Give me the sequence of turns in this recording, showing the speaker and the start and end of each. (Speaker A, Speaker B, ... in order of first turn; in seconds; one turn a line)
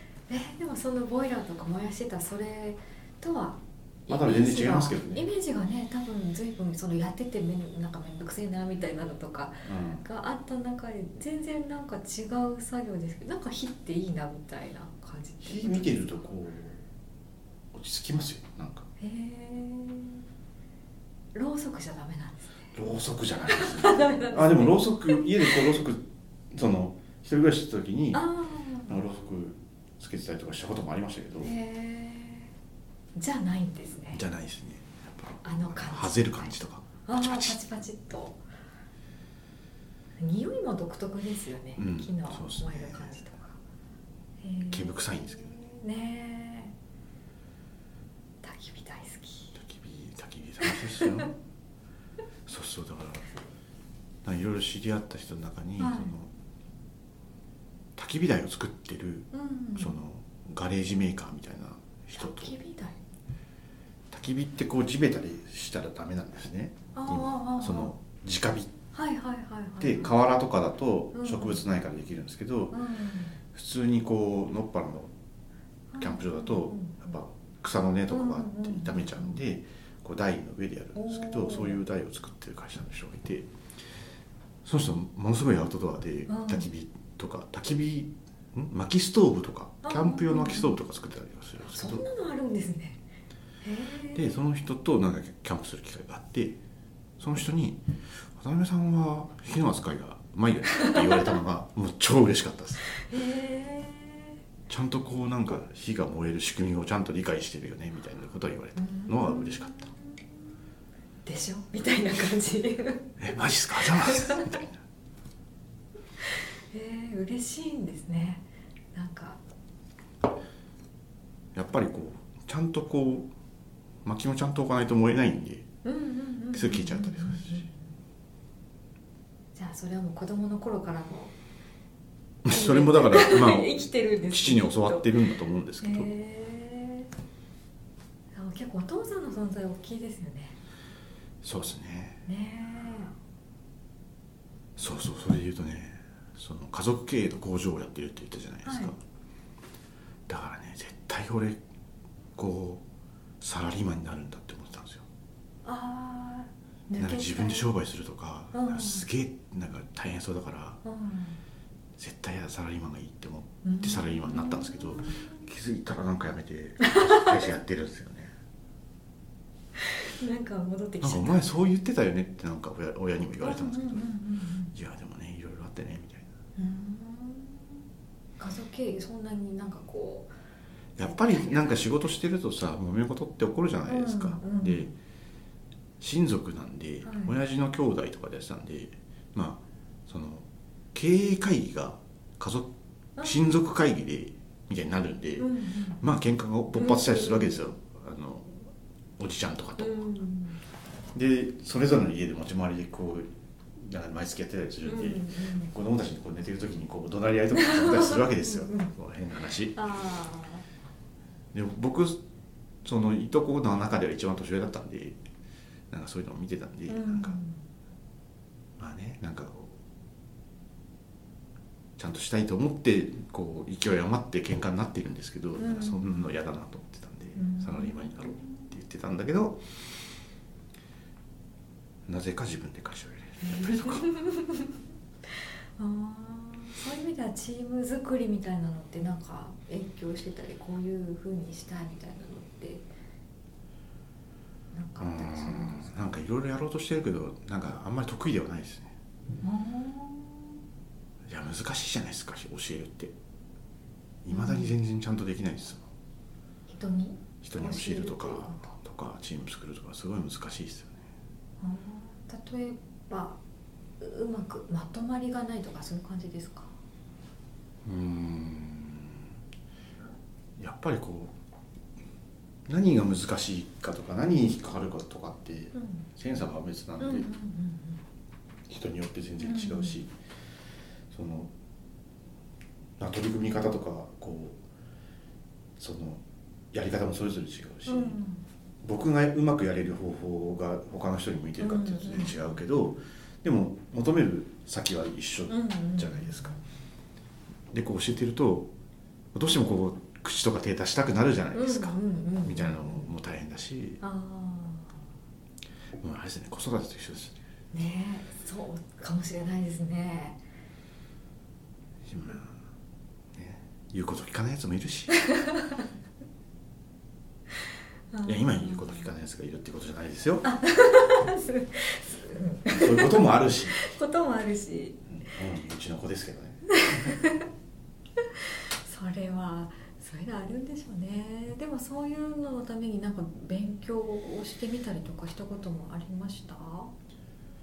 Speaker A: 0.3-16.2
Speaker B: 4.1-5.2
Speaker B: 9.7-10.0
Speaker B: 15.4-16.8
Speaker B: 17.7-18.9
Speaker A: 19.0-20.2
Speaker A: 21.3-22.6
Speaker B: 22.7-28.2
Speaker A: 23.5-25.6
Speaker A: 28.1-29.0
Speaker B: 28.9-31.5
Speaker A: 31.4-32.5
Speaker A: 33.1-34.2
Speaker B: 34.1-37.6
Speaker A: 35.4-36.5
Speaker A: 37.0-38.4
Speaker A: 40.2-43.6
Speaker B: 41.8-43.2
Speaker A: 44.4-46.7
Speaker B: 44.7-45.5
Speaker A: 48.4-49.5
Speaker B: 49.5-51.3
Speaker A: 50.6-51.2
Speaker B: 52.5-53.3
Speaker B: 54.2-56.3
Speaker A: 55.8-56.1
Speaker B: 58.0-62.5
Speaker A: 59.3-59.9
Speaker A: 62.1-63.0
Speaker B: 64.1-68.7
Speaker A: 66.9-67.9
Speaker A: 68.9-70.2
Speaker B: 69.8-72.8
Speaker A: 71.1-71.6
Speaker A: 72.7-73.3
Speaker B: 73.5-75.1
Speaker A: 75.9-77.1
Speaker B: 76.0-83.5
Speaker A: 78.1-79.4
Speaker A: 80.9-81.8
Speaker B: 84.6-92.0
Speaker A: 86.3-86.7
Speaker A: 89.8-90.8
Speaker A: 91.6-93.0
Speaker A: 93.6-94.4
Speaker B: 94.1-96.6
Speaker B: 97.2-103.0
Speaker A: 100.7-101.3
Speaker A: 102.9-104.3
Speaker B: 104.7-109.9
Speaker A: 108.8-110.2
Speaker A: 111.2-113.2
Speaker B: 113.2-114.8
Speaker A: 113.8-114.6
Speaker A: 116.2-119.4
Speaker B: 121.5-123.3
Speaker B: 124.0-125.7
Speaker A: 125.8-127.8
Speaker B: 126.5-127.7
Speaker A: 129.5-131.3
Speaker B: 132.4-136.1
Speaker A: 132.5-135.2
Speaker A: 135.8-137.1
Speaker A: 138.3-140.6
Speaker B: 141.4-142.2
Speaker A: 142.2-143.1
Speaker B: 144.8-149.0
Speaker A: 148.6-148.9
Speaker B: 150.3-151.6
Speaker B: 152.3-152.8
Speaker B: 153.4-155.0
Speaker A: 155.6-157.7
Speaker B: 157.0-160.8
Speaker A: 158.5-159.1
Speaker A: 160.8-161.4
Speaker B: 162.0-168.3
Speaker A: 163.6-165.4
Speaker A: 166.8-167.4
Speaker A: 169.8-171.5
Speaker B: 171.0-174.1
Speaker A: 173.4-174.7
Speaker B: 174.7-176.3
Speaker A: 176.6-177.8
Speaker A: 178.4-180.3
Speaker B: 180.9-184.9
Speaker A: 181.0-181.8
Speaker A: 183.9-184.9
Speaker B: 186.0-200.0
Speaker A: 187.0-187.3
Speaker A: 195.4-196.0
Speaker A: 196.7-197.6
Speaker A: 199.8-200.6
Speaker B: 201.1-209.8
Speaker A: 204.8-205.7
Speaker A: 207.5-208.9
Speaker A: 209.7-210.6
Speaker B: 211.5-212.2
Speaker B: 212.8-215.2
Speaker B: 215.9-217.4
Speaker A: 216.9-217.6
Speaker B: 218.8-219.7
Speaker B: 222.0-229.9
Speaker A: 225.6-226.1
Speaker A: 227.3-228.7
Speaker B: 232.1-234.1
Speaker A: 233.4-234.7
Speaker A: 235.3-242.9
Speaker A: 244.7-246.1
Speaker B: 245.0-248.9
Speaker A: 249.4-250.6
Speaker B: 251.3-253.1
Speaker B: 254.2-255.8
Speaker A: 254.3-254.7
Speaker A: 256.7-258.7
Speaker B: 257.4-261.0
Speaker A: 261.6-263.4
Speaker A: 264.0-266.7
Speaker B: 267.8-269.3
Speaker B: 270.6-271.3
Speaker B: 272.6-277.3
Speaker A: 275.7-276.1
Speaker A: 277.0-278.0
Speaker B: 278.7-280.1
Speaker A: 279.4-280.0
Speaker B: 281.1-281.5
Speaker B: 283.0-284.6
Speaker B: 285.8-286.2
Speaker B: 286.7-288.2
Speaker A: 287.9-288.4
Speaker B: 288.8-296.6
Speaker A: 291.6-292.4
Speaker A: 295.5-296.6
Speaker B: 297.7-298.7
Speaker B: 299.3-304.0
Speaker A: 301.5-303.1
Speaker A: 304.0-304.9
Speaker B: 306.0-307.4
Speaker A: 307.7-310.4
Speaker B: 312.0-312.6
Speaker B: 313.3-315.1
Speaker A: 315.1-315.8
Speaker A: 318.1-319.0
Speaker B: 318.2-320.4
Speaker A: 320.4-325.0
Speaker B: 322.7-323.8
Speaker B: 325.1-327.2
Speaker A: 326.7-327.5
Speaker A: 328.2-336.9